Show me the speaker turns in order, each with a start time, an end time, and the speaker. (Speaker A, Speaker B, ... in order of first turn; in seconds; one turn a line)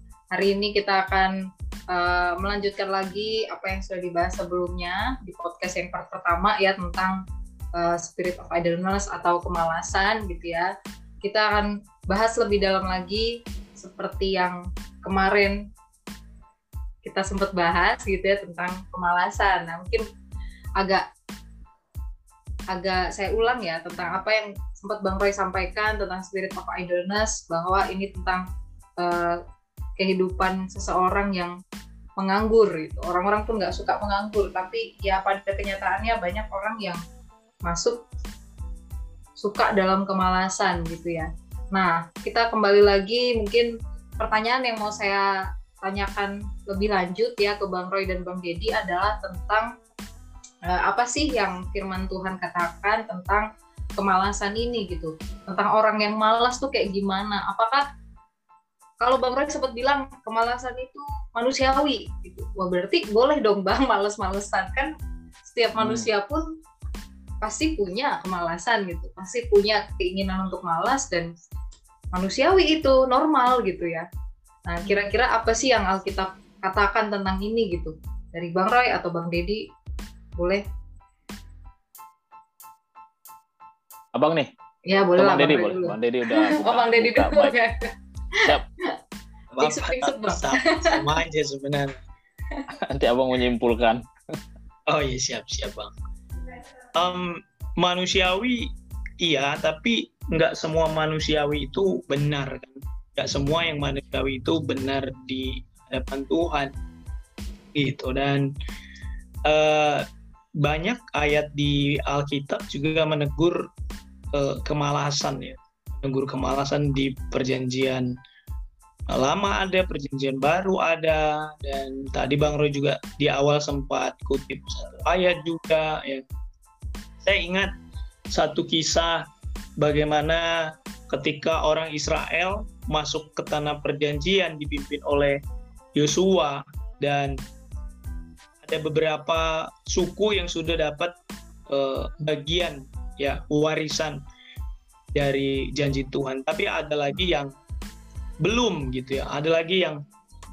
Speaker A: 0.3-1.3
Speaker A: 1.9-7.2
Speaker A: 7.8-10.7
Speaker A: 11.2-15.6
Speaker A: 17.0-20.0
Speaker A: 20.8-21.0
Speaker A: 22.7-28.4
Speaker A: 29.0-29.4
Speaker A: 30.0-31.6
Speaker A: 32.2-37.0
Speaker A: 37.6-38.0
Speaker A: 39.4-49.7
Speaker A: 50.6-57.8
Speaker A: 59.0-64.9
Speaker A: 65.5-66.5
Speaker B: 65.8-66.1
Speaker A: 67.4-71.3
Speaker A: 72.1-74.1
Speaker A: 74.7-79.6
Speaker A: 80.4-80.6
Speaker B: 84.1-84.5
Speaker A: 84.9-88.5
Speaker B: 85.2-87.5
Speaker C: 89.5-92.0
Speaker A: 89.6-91.0
Speaker B: 92.7-94.0
Speaker C: 94.9-95.9
Speaker C: 96.9-98.7
Speaker C: 99.2-106.7
Speaker C: 107.7-108.5
Speaker C: 109.4-110.0
Speaker C: 110.6-113.7
Speaker C: 114.3-118.1
Speaker C: 119.1-126.2
Speaker C: 127.2-127.7
Speaker C: 128.3-129.2
Speaker C: 129.8-135.4
Speaker C: 135.9-137.4
Speaker C: 138.6-141.1
Speaker C: 141.7-144.2
Speaker C: 145.1-147.5
Speaker C: 148.4-150.0